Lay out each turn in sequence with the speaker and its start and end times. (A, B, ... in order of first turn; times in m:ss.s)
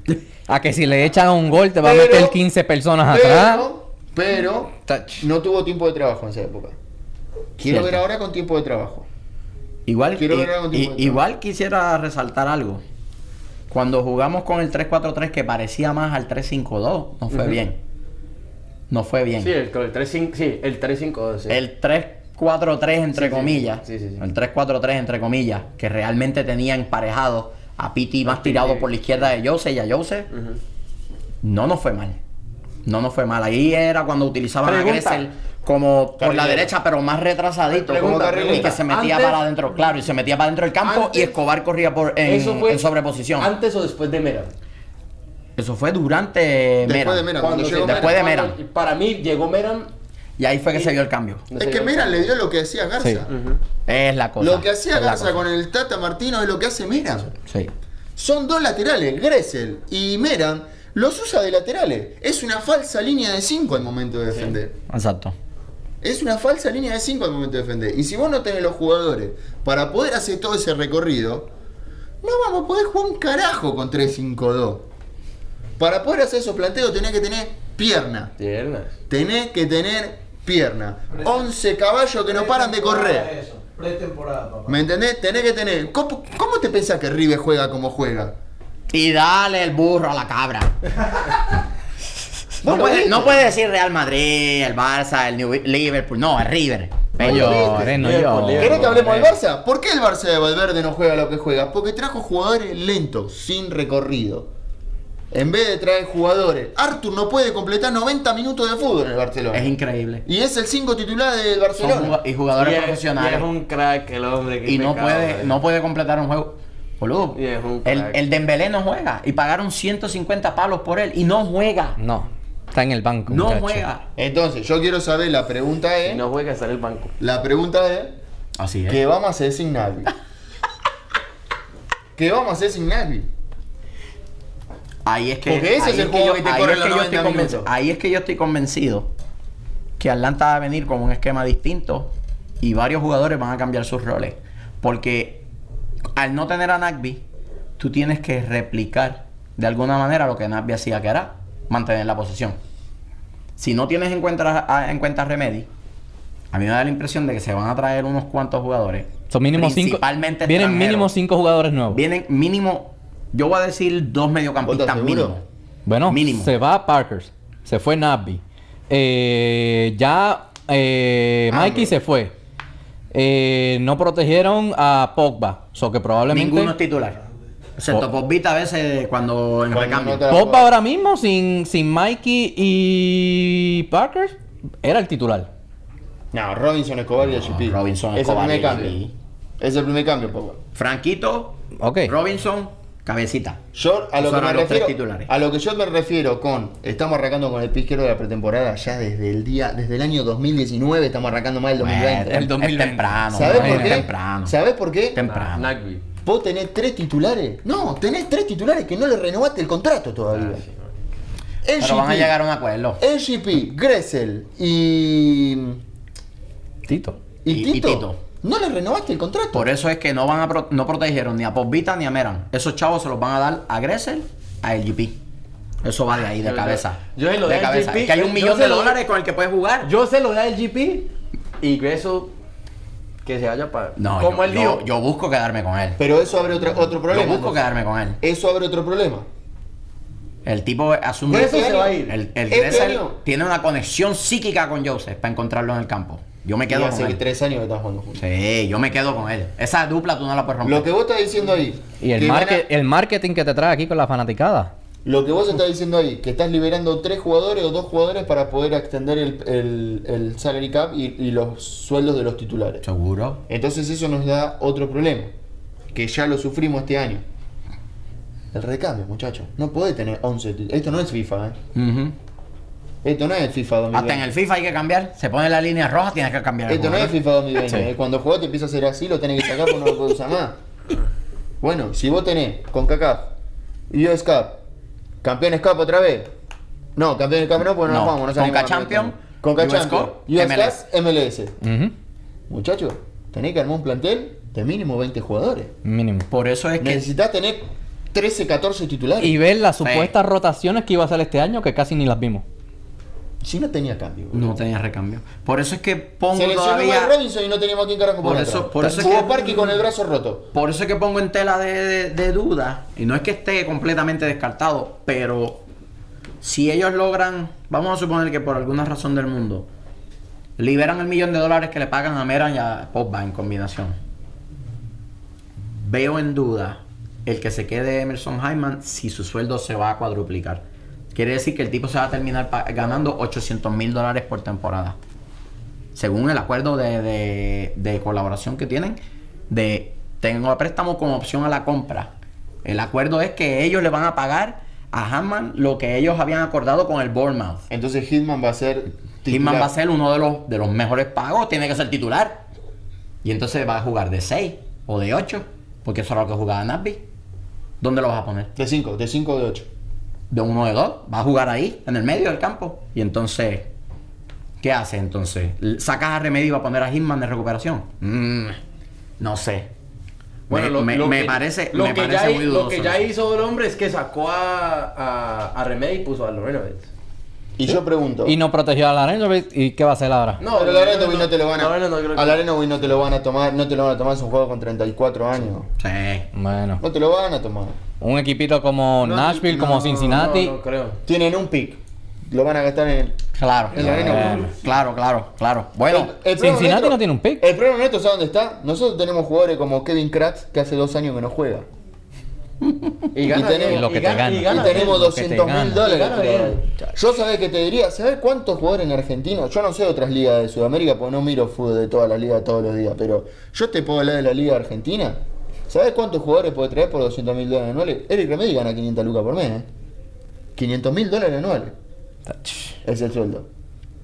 0:00.5-0:03.7 A
0:01.8-0:02.4 B
0:03.1-0:06.8 B
0:04.9-0:05.2 A
0:07.6-0:09.0 B
0:07.6-0:08.0 C
0:09.8-0:12.8 C
0:10.2-0:11.2 B
0:13.7-0:17.8 C
0:17.3-0:17.6 D
0:18.9-0:19.5 C
0:19.4-0:21.6 D
0:21.5-0:30.3 C
0:23.1-0:24.2 D
0:28.2-0:28.9 D
0:30.3-0:30.6 D
0:31.4-0:32.2 C
0:32.8-0:43.5 C
0:34.6-0:35.3 D
0:36.2-0:36.7 B
0:37.8-0:39.4 D
0:37.9-0:38.8 B
0:40.8-0:41.4 D
0:42.2-0:44.5 D
0:45.6-0:48.6 C
0:46.8-0:48.2 B
0:47.4-0:49.9 D
0:50.4-0:51.5 C
0:51.5-0:52.3 D
0:51.5-0:53.3 B
0:53.0-0:53.2 A
0:53.3-0:53.6 D
0:53.9-0:55.4 C
0:54.4-0:57.3 B
0:57.5-0:57.7 C
0:58.2-1:04.7 B
1:04.9-1:05.3 C
1:06.0-1:11.5 B
1:12.2-1:14.8 B
1:15.8-1:18.3 B
1:18.4-1:18.9 D
1:19.1-1:23.3 B
1:22.3-1:24.8 E
1:24.6-1:28.3 B
1:28.9-1:30.7 C
1:32.6-1:39.0 C
1:32.6-1:33.4 B
1:37.2-1:38.0 B
1:37.2-1:38.8 A
1:38.0-1:39.2 D
1:38.6-1:44.5 B
1:45.3-1:49.7 B
1:49.5-1:50.2 C
1:50.2-1:52.2 B
1:51.8-1:53.5 C
1:52.6-1:55.6 D
1:54.6-2:02.0 C
1:57.3-1:58.2 D
2:02.0-2:03.8 A
2:03.3-2:04.0 C
2:04.2-2:06.2 B
2:06.0-2:07.1 D
2:07.2-2:08.2 B
2:08.6-2:09.0 C
2:08.9-2:10.1 B
2:12.2-2:13.3 B
2:15.0-2:19.1 C
2:15.4-2:17.7 B
2:20.0-2:25.4 C
2:26.2-2:27.2 C
2:27.8-2:32.6 C
2:33.6-2:35.7 C
2:36.5-2:41.1 C
2:39.3-2:42.0 A
2:41.9-2:45.4 C
2:44.6-2:45.4 B
2:45.8-2:52.3 A
2:46.1-2:46.5 C
2:51.5-2:51.9 B
2:53.1-2:56.7 A
2:56.3-2:57.2 C
2:57.8-3:00.3 C
2:59.7-3:00.7 B
3:00.3-3:05.5 A
3:06.3-3:09.0 B
3:07.3-3:09.1 C
3:08.6-3:08.9 D
3:09.6-3:10.6 B
3:10.7-3:13.6 C
3:11.8-3:12.1 A
3:13.7-3:22.7 B
3:14.2-3:15.3 C
3:21.8-3:24.5 C
3:22.6-3:24.1 A
3:23.3-3:25.2 B
3:25.1-3:25.7 C
3:25.2-3:26.0 D
3:26.2-3:30.6 B
3:30.3-3:30.9 D
3:31.6-3:32.4 B
3:31.8-3:33.0 C
3:33.0-3:35.8 B
3:36.9-3:37.2 A
3:37.4-3:39.6 B
3:37.5-3:38.2 C
3:39.5-3:45.2 C
3:45.8-3:49.9 C
3:46.4-3:49.0 D
3:49.8-3:52.3 D
3:53.2-3:54.9 D
3:54.0-3:56.0 C
3:56.0-3:57.6 B
3:57.1-3:58.2 C
3:58.2-3:59.2 B
4:00.4-4:07.2 C
4:01.3-4:02.2 D
4:01.4-4:03.2 B
4:06.7-4:08.2 B
4:08.2-4:10.9 C
4:10.6-4:12.6 B
4:12.0-4:14.7 A
4:15.0-4:22.8 B
4:22.8-4:23.4 C
4:23.5-4:25.3 B
4:25.9-4:27.2 B
4:28.5-4:31.6 B
4:31.7-4:32.1 C
4:33.0-4:34.2 B
4:33.9-4:37.2 C
4:36.7-4:40.6 B
4:41.6-4:43.3 B
4:43.9-4:44.6 B
4:45.2-4:46.3 B
4:47.0-4:51.5 B
4:47.8-4:50.8 C
4:51.6-4:51.9 A
4:52.5-4:55.7 B
4:55.8-4:56.3 A
4:56.3-4:57.1 C
4:56.8-4:59.4 B
4:59.2-5:02.4 A
4:59.8-5:00.1 C
5:03.4-5:04.6 B
5:04.3-5:07.1 C
5:06.3-5:10.4 B
5:08.2-5:09.5 C
5:10.5-5:15.6 C
5:16.4-5:19.7 C
5:20.6-5:24.0 C
5:25.8-5:30.6 C
5:31.1-5:35.0 C
5:35.9-5:39.0 C
5:39.5-5:42.1 C
5:42.6-5:47.6 C
5:47.7-5:49.7 B
5:49.3-5:52.4 C
5:53.2-5:57.0 C
5:57.8-5:58.5 C
5:58.6-5:59.7 B
6:00.3-6:03.7 C
6:04.6-6:08.6 C
6:09.2-6:09.7 C
6:10.5-6:13.0 C
6:10.5-6:16.9 D
6:17.6-6:18.4 B
6:18.2-6:20.4 A
6:20.4-6:22.4 D
6:20.5-6:25.7 B
6:25.8-6:26.3 C
6:26.3-6:26.8 A
6:26.8-6:27.8 B
6:28.0-6:30.5 A
6:29.0-6:30.3 B
6:30.0-6:31.0 D
6:31.0-6:33.2 B
6:33.4-6:36.1 C
6:33.7-6:34.5 B
6:33.8-6:34.5 A
6:35.9-6:41.7 B
6:36.4-6:37.5 A
6:43.1-6:45.0 D
6:43.2-6:43.9 B
6:43.7-6:45.8 A
6:44.4-6:59.7 B
6:45.8-6:46.6 D
7:00.6-7:01.7 B
7:02.3-7:02.7 A
7:02.8-7:03.5 B